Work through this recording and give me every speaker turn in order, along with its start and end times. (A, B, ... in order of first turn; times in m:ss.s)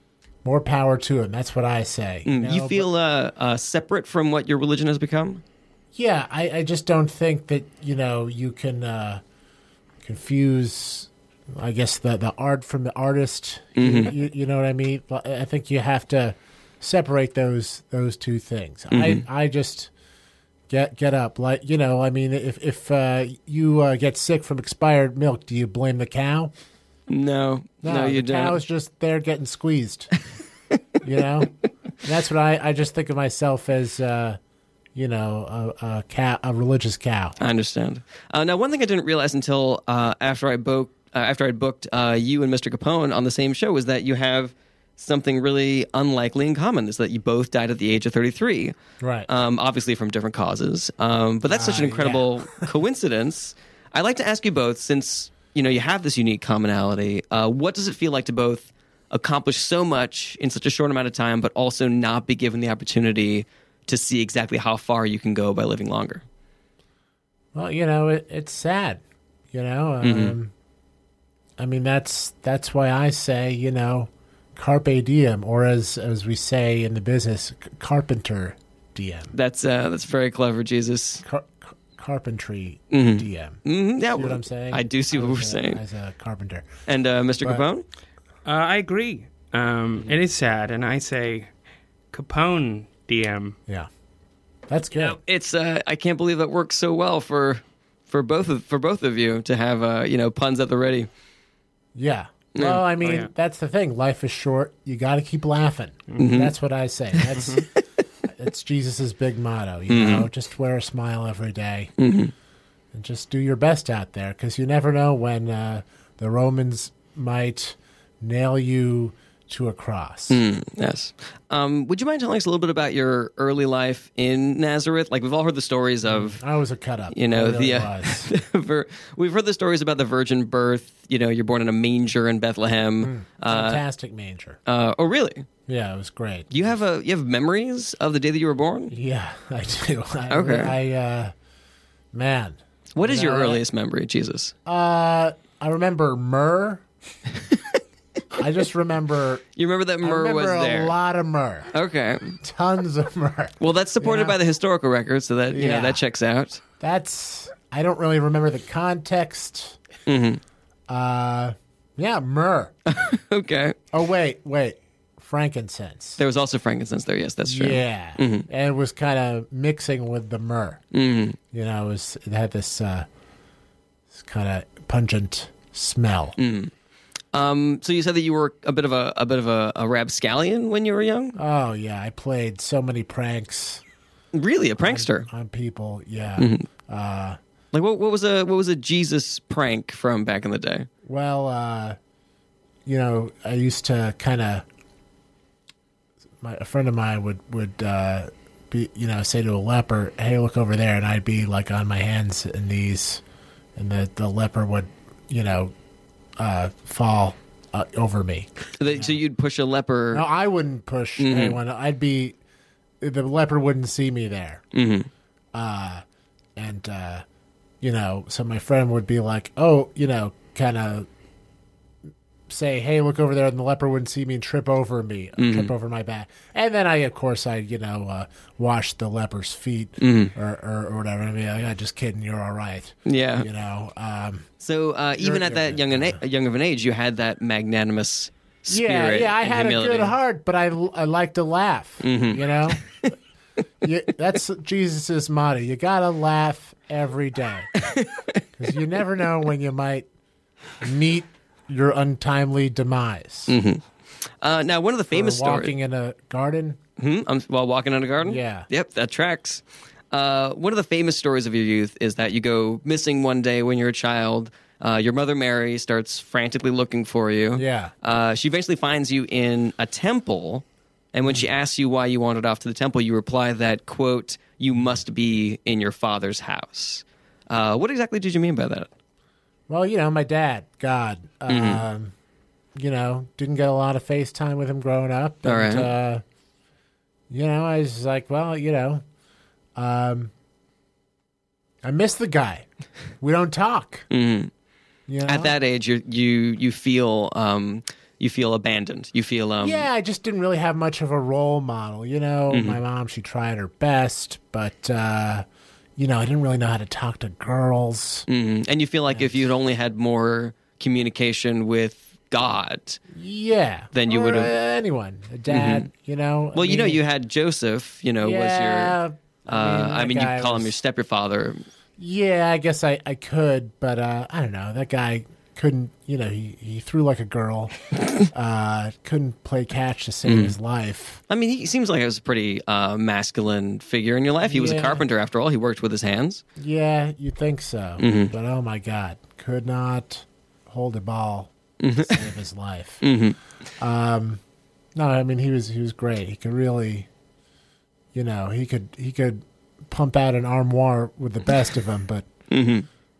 0:00.4-0:02.9 A
0:02.3-0:05.4 B
0:05.9-0:09.2 A
0:10.0-0:19.9 A
0:13.8-0:14.1 B
0:18.9-0:19.2 B
0:20.7-0:26.5 A
0:27.1-0:28.6 B
0:27.8-0:30.1 A
0:31.0-0:34.4 A
0:35.0-0:37.4 A
0:37.4-0:48.8 B
0:49.0-0:49.3 A
0:49.3-1:06.2 B
0:51.5-0:52.7 A
1:07.5-1:09.0 A
1:09.5-1:10.5 A
1:10.0-1:10.4 B
1:11.6-1:19.3 A
1:19.3-1:21.2 B
1:21.2-1:26.7 A
1:22.9-1:25.8 B
1:26.9-1:27.8 B
1:28.4-1:31.5 C
1:32.1-1:33.6 C
1:34.7-1:35.2 A
1:35.0-1:41.1 B
1:42.0-1:47.7 A
1:42.6-1:42.9 B
1:43.0-1:43.3 C
1:46.2-1:46.5 B
1:48.4-1:51.9 A
1:49.9-1:50.3 B
1:52.0-1:52.3 B
1:52.9-2:00.4 A
2:00.3-2:06.4 B
2:06.1-2:08.3 A
2:07.1-2:13.8 B
2:13.0-2:14.6 A
2:14.7-2:15.5 B
2:15.7-2:16.7 A
2:16.5-2:18.9 B
2:18.9-2:21.3 A
2:20.3-2:20.8 B
2:22.1-2:23.6 A
2:23.0-2:24.5 B
2:24.7-2:26.8 A
2:28.4-2:29.4 A
2:29.6-2:31.0 B
2:30.0-2:31.7 A
2:31.7-2:32.4 B
2:32.4-2:34.4 A
2:33.6-2:36.6 B
2:35.5-2:36.0 A
2:36.8-2:39.8 A
2:40.1-2:40.4 B
2:40.9-2:42.8 A
2:42.9-2:43.8 B
2:43.9-2:46.2 A
2:46.2-2:48.5 B
2:47.4-2:50.8 A
2:50.9-2:51.4 B
2:51.5-2:53.1 A
2:54.2-2:56.4 A
2:56.4-2:56.7 B
2:57.3-3:01.4 B
3:01.4-3:03.8 A
3:04.3-3:05.3 B
3:04.8-3:07.4 A
3:06.4-3:06.7 B
3:07.7-3:10.9 B
3:11.0-3:12.0 A
3:12.9-3:14.6 A
3:16.4-3:23.2 A
3:23.8-3:25.7 A
3:26.4-3:29.2 A
3:28.8-3:30.2 B
3:30.1-3:32.4 A
3:31.2-3:31.6 B
3:33.0-3:34.6 A
3:34.7-3:35.1 B
3:35.5-3:36.0 A
3:36.6-3:37.2 A
3:37.8-3:41.1 A
3:42.5-3:54.5 A
3:45.4-3:45.7 B
3:50.0-3:50.3 B
3:53.1-3:53.5 B
3:54.6-4:00.2 B
3:55.2-3:56.2 A
3:58.7-4:03.1 A
4:02.0-4:03.1 B
4:03.8-4:07.8 A
4:07.8-4:08.4 B
4:08.6-4:10.1 A
4:10.8-4:13.6 A
4:13.5-4:13.8 B
4:14.4-4:15.8 B
4:15.1-4:16.8 A
4:17.0-4:38.9 B
4:18.2-4:18.7 A
4:27.6-4:27.9 A
4:39.7-4:42.1 A
4:41.5-4:41.8 B
4:42.8-4:46.2 A
4:45.4-4:45.9 B
4:47.3-4:49.0 A
4:49.8-4:50.3 A
4:51.8-4:52.7 A
4:53.2-4:54.1 A
4:54.1-4:54.5 B
4:55.1-4:55.5 A
4:55.3-4:59.9 B
4:59.6-5:05.4 A
5:02.5-5:02.8 B
5:06.0-5:08.3 A
5:08.3-5:13.0 B
5:09.1-5:09.4 A
5:13.1-5:17.0 A
5:13.9-5:14.5 B
5:15.5-5:15.9 B
5:16.5-5:21.6 B
5:18.2-5:20.8 A
5:22.0-5:31.2 A
5:30.2-5:30.6 B
5:31.3-5:36.4 B
5:34.5-5:35.0 A
5:36.6-5:43.0 A
5:38.0-5:38.3 B
5:41.8-5:42.2 B
5:43.0-5:43.4 B
5:43.8-5:44.4 A
5:45.0-5:47.1 A
5:48.1-5:52.3 A
5:52.5-5:52.9 B